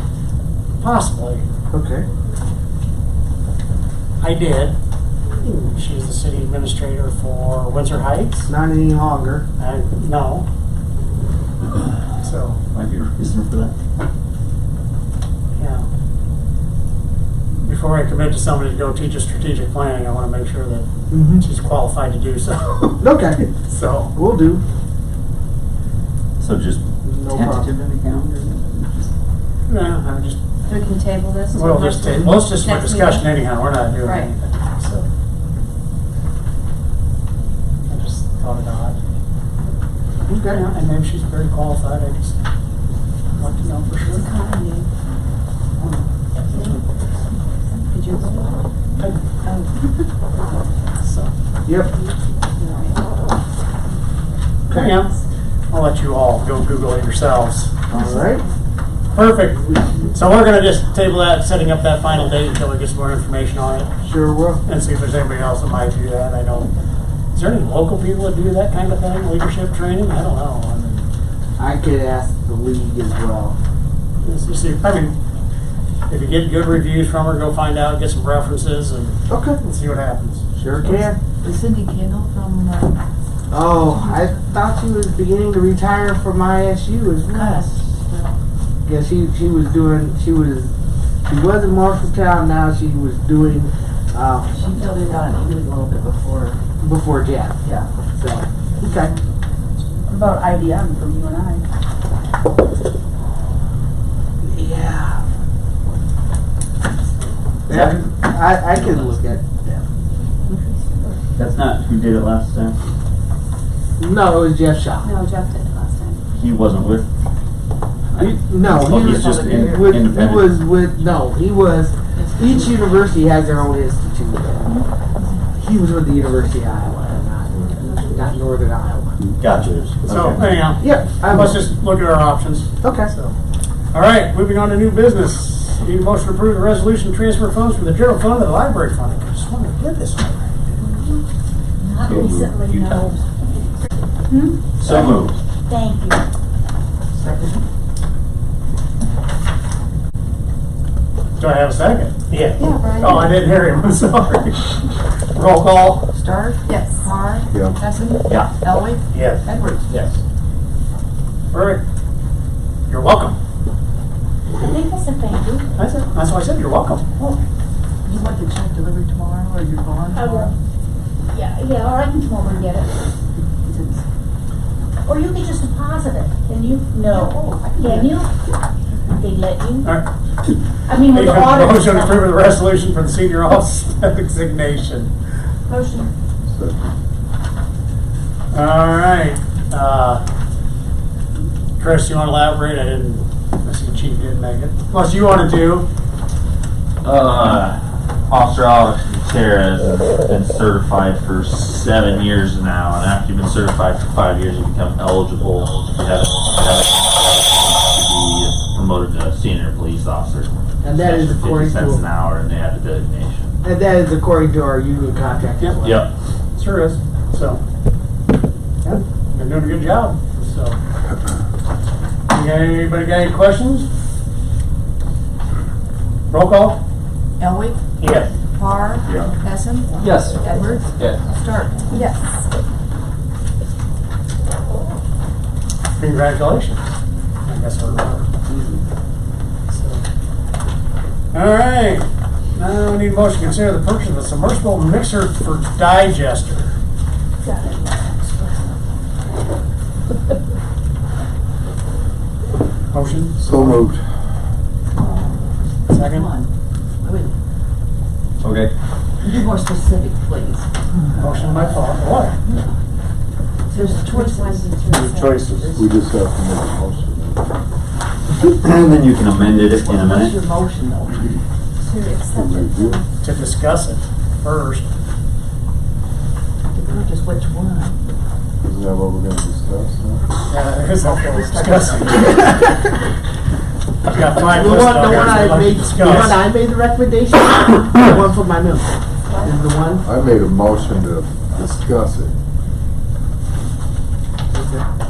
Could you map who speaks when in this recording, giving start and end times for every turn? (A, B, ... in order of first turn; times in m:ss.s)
0:00.8-0:01.5 A
0:01.7-0:02.1 B
0:04.2-0:04.8 A
0:05.4-0:08.5 A
0:08.5-0:09.5 B
0:09.6-0:10.5 A
0:12.2-0:12.6 A
0:12.7-0:13.7 C
0:15.6-0:15.9 A
0:17.6-0:23.0 A
0:21.1-0:21.4 B
0:23.0-0:23.5 B
0:23.6-0:24.1 A
0:24.1-0:24.6 B
0:26.4-0:26.8 C
0:27.0-0:27.7 B
0:27.4-0:29.1 D
0:29.7-0:30.4 A
0:31.0-0:31.9 E
0:31.5-0:35.1 A
0:32.5-0:33.2 E
0:37.9-0:39.0 A
0:40.3-0:40.7 B
0:40.5-0:42.4 A
0:43.4-0:44.3 A
0:44.2-0:44.9 E
0:45.8-0:46.8 A
0:46.5-0:46.8 E
0:47.9-0:48.5 E
0:51.0-0:51.3 A
0:51.6-0:51.9 B
0:52.6-0:53.0 E
0:54.7-0:55.0 B
0:54.7-0:57.7 A
0:57.9-0:58.4 B
0:59.1-1:03.9 A
1:04.0-1:04.6 B
1:04.7-1:06.7 A
1:07.3-1:11.1 A
1:11.6-1:13.6 B
1:14.2-1:15.2 A
1:16.1-1:20.5 A
1:19.3-1:19.6 B
1:20.6-1:21.2 B
1:20.8-1:23.0 D
1:23.5-1:27.7 B
1:27.3-1:28.4 D
1:28.8-1:30.7 B
1:31.3-1:34.5 B
1:34.5-1:36.6 D
1:36.8-1:37.6 B
1:37.6-1:37.9 D
1:38.2-1:39.2 B
1:44.4-1:45.2 B
1:47.7-1:49.9 B
1:47.7-1:48.0 C
1:50.5-1:51.2 E
1:51.4-1:52.8 C
1:54.0-1:55.1 B
1:55.0-1:56.2 E
1:56.3-1:57.1 C
1:58.1-2:00.6 C
1:58.5-2:04.8 B
1:58.7-1:59.9 D
2:02.2-2:02.9 D
2:05.6-2:09.2 B
2:09.4-2:10.5 C
2:10.1-2:13.4 A
2:10.8-2:11.6 B
2:12.8-2:13.1 B
2:13.9-2:21.2 A
2:21.8-2:23.8 E
2:22.1-2:23.1 C
2:24.3-2:24.6 E
2:24.8-2:25.4 C
2:25.7-2:26.2 E
2:27.2-2:27.6 D
2:31.4-2:36.1 A
2:32.6-2:33.2 E
2:36.1-2:40.1 D
2:36.7-2:37.1 E
2:37.5-2:37.8 F
2:38.3-2:38.5 C
2:39.1-2:39.5 A
2:41.5-2:41.8 A
2:42.9-2:43.4 A
2:44.5-2:45.7 E
2:45.8-2:47.1 A
2:48.0-2:50.5 D
2:50.1-2:50.5 E
2:51.3-2:52.9 E
2:53.6-2:54.0 D
2:55.0-2:58.3 E
2:57.1-2:58.1 D
2:59.1-2:59.9 E
2:59.8-3:00.1 A
3:00.9-3:02.3 E
3:01.0-3:05.1 A
3:05.7-3:06.1 E
3:06.5-3:06.8 F
3:08.5-3:10.2 A
3:11.8-3:15.9 A
3:17.0-3:33.6 C
3:30.8-3:32.0 B
3:33.6-3:36.1 B
3:35.8-3:36.1 C
3:36.6-3:37.6 A
3:39.3-3:40.8 A
3:42.3-3:43.9 A
3:46.3-3:46.8 A
3:47.4-3:47.8 D
3:48.0-3:48.3 A
3:48.6-3:52.1 D
3:49.0-3:49.3 C
3:50.0-3:50.4 C
3:51.0-3:51.2 C
3:51.9-3:52.3 E
3:56.0-3:57.0 A
3:57.5-3:58.3 A
3:59.7-4:00.0 A
4:01.3-4:06.8 A
4:07.5-4:08.8 D
4:12.9-4:13.8 A
4:13.4-4:14.0 F
4:15.9-4:16.4 A
4:15.9-4:16.5 D
4:17.0-4:17.3 D
4:18.4-4:18.7 C
4:19.2-4:20.7 D
4:21.2-4:22.4 A
4:23.7-4:25.1 E
4:23.7-4:25.9 D
4:24.9-4:27.5 F
4:28.3-4:30.4 C
4:29.4-4:31.4 D
4:31.8-4:33.0 E
4:32.2-4:33.0 F
4:33.2-4:34.9 A
4:36.7-4:38.0 D
4:38.6-4:40.3 F
4:40.5-4:42.6 A
4:41.0-4:42.5 D
4:44.0-4:46.4 A
4:44.4-4:50.1 B
4:50.0-4:52.3 F
4:54.5-4:54.8 B